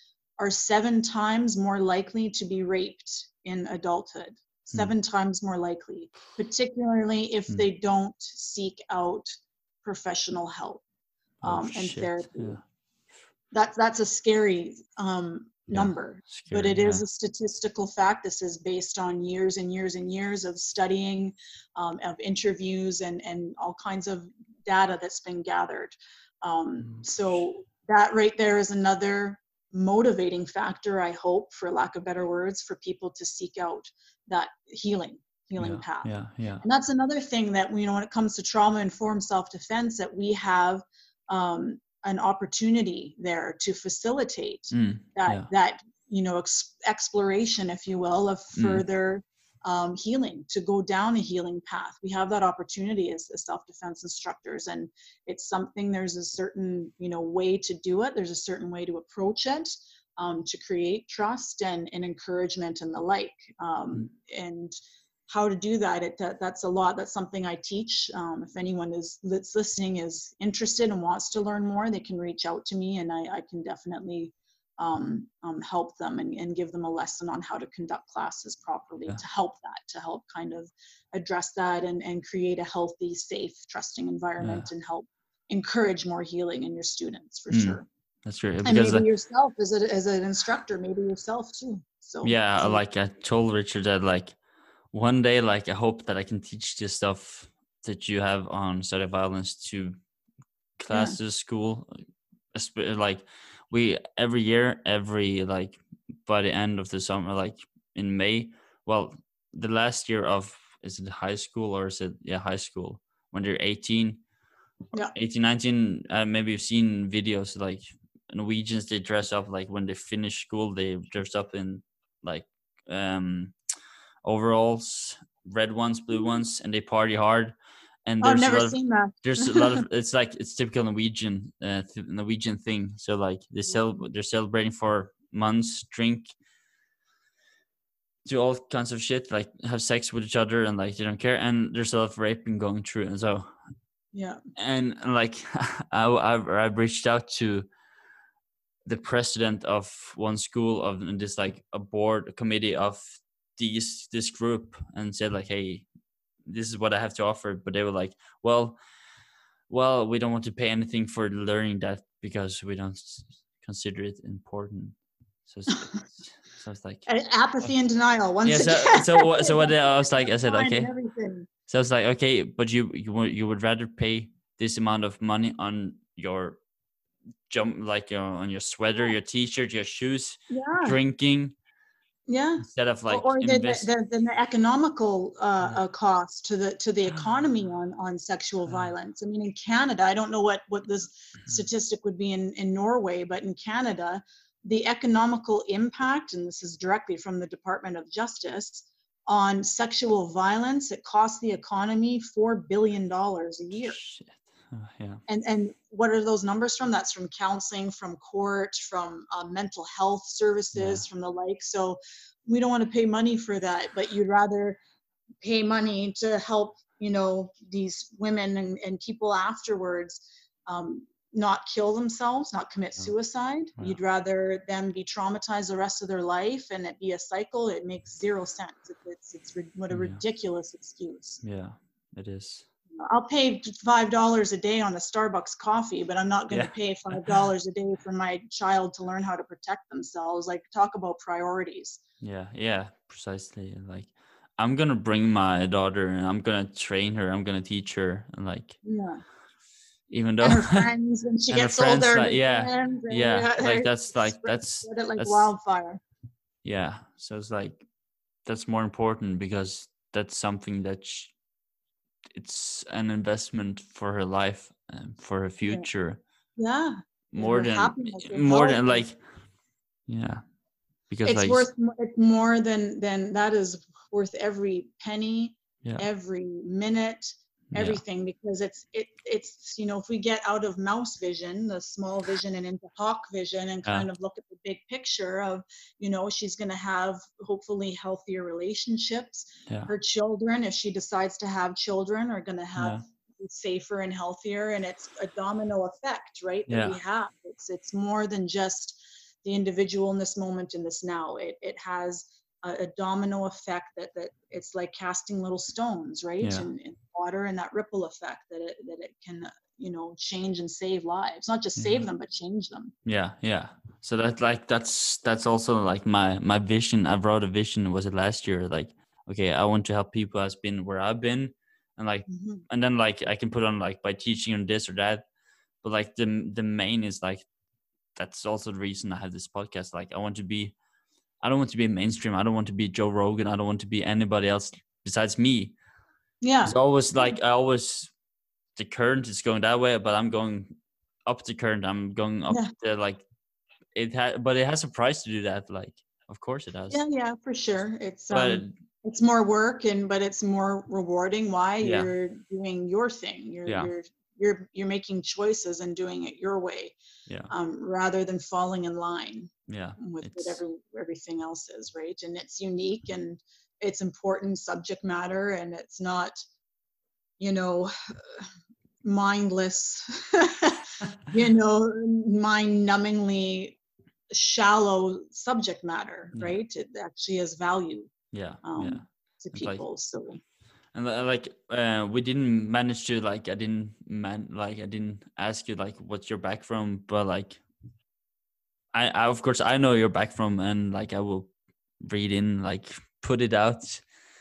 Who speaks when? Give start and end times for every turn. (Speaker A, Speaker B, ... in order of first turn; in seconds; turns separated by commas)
Speaker A: 0.4-10.8, Speaker B: 11.4-12.6, Speaker A: 11.4-12.6, Speaker A: 13.5-64.8, Speaker B: 15.7-17.0, Speaker B: 35.6-36.6, Speaker B: 44.7-45.5, Speaker B: 48.6-48.8, Speaker A: 65.3-87.9, Speaker B: 84.4-84.7, Speaker B: 87.5-89.1, Speaker A: 88.7-92.8, Speaker B: 92.2-94.4, Speaker B: 94.9-100.0, Speaker B: 100.8-101.9, Speaker A: 100.9-101.2, Speaker B: 102.5-114.2, Speaker B: 115.1-123.6, Speaker B: 124.2-136.3, Speaker A: 128.2-129.8, Speaker B: 138.2-143.5, Speaker A: 144.1-144.4, Speaker B: 144.6-147.7, Speaker B: 148.9-155.9, Speaker B: 156.4-158.8, Speaker B: 159.7-167.1, Speaker A: 165.7-166.0, Speaker A: 167.1-171.5, Speaker B: 168.4-170.9, Speaker B: 171.7-176.6, Speaker B: 177.5-181.6, Speaker A: 180.5-181.0, Speaker A: 182.3-204.0, Speaker B: 182.6-183.9, Speaker B: 203.8-205.2, Speaker A: 205.3-214.8, Speaker B: 210.7-211.0, Speaker A: 215.4-231.4, Speaker B: 229.9-230.2, Speaker B: 231.4-232.7, Speaker A: 233.0-242.0, Speaker B: 236.5-237.4, Speaker B: 242.2-248.8, Speaker A: 248.8-249.2, Speaker B: 250.1-250.9, Speaker A: 250.4-256.0, Speaker B: 251.5-255.5, Speaker B: 256.6-257.8, Speaker B: 258.4-261.4, Speaker B: 262.3-266.2, Speaker A: 266.6-269.1, Speaker B: 267.3-269.2, Speaker B: 270.1-270.4, Speaker B: 271.1-271.7, Speaker A: 271.2-312.9, Speaker B: 277.7-278.0, Speaker B: 292.8-293.0, Speaker B: 296.7-297.0, Speaker B: 306.4-306.7, Speaker B: 311.8-312.1, Speaker B: 313.1-325.2, Speaker A: 322.3-322.6, Speaker B: 325.8-327.4, Speaker B: 328.1-330.8, Speaker B: 331.4-335.7, Speaker A: 336.4-336.8, Speaker B: 336.6-338.1, Speaker B: 338.8-340.8, Speaker B: 341.3-343.2, Speaker B: 343.9-347.0, Speaker A: 346.9-356.9, Speaker B: 348.3-348.7, Speaker B: 351.8-352.1, Speaker B: 353.7-353.9, Speaker A: 357.5-366.4, Speaker B: 359.7-360.6, Speaker A: 367.4-368.5, Speaker A: 369.0-373.8, Speaker A: 374.3-380.4, Speaker B: 378.3-379.8, Speaker B: 380.9-387.6, Speaker B: 388.9-394.0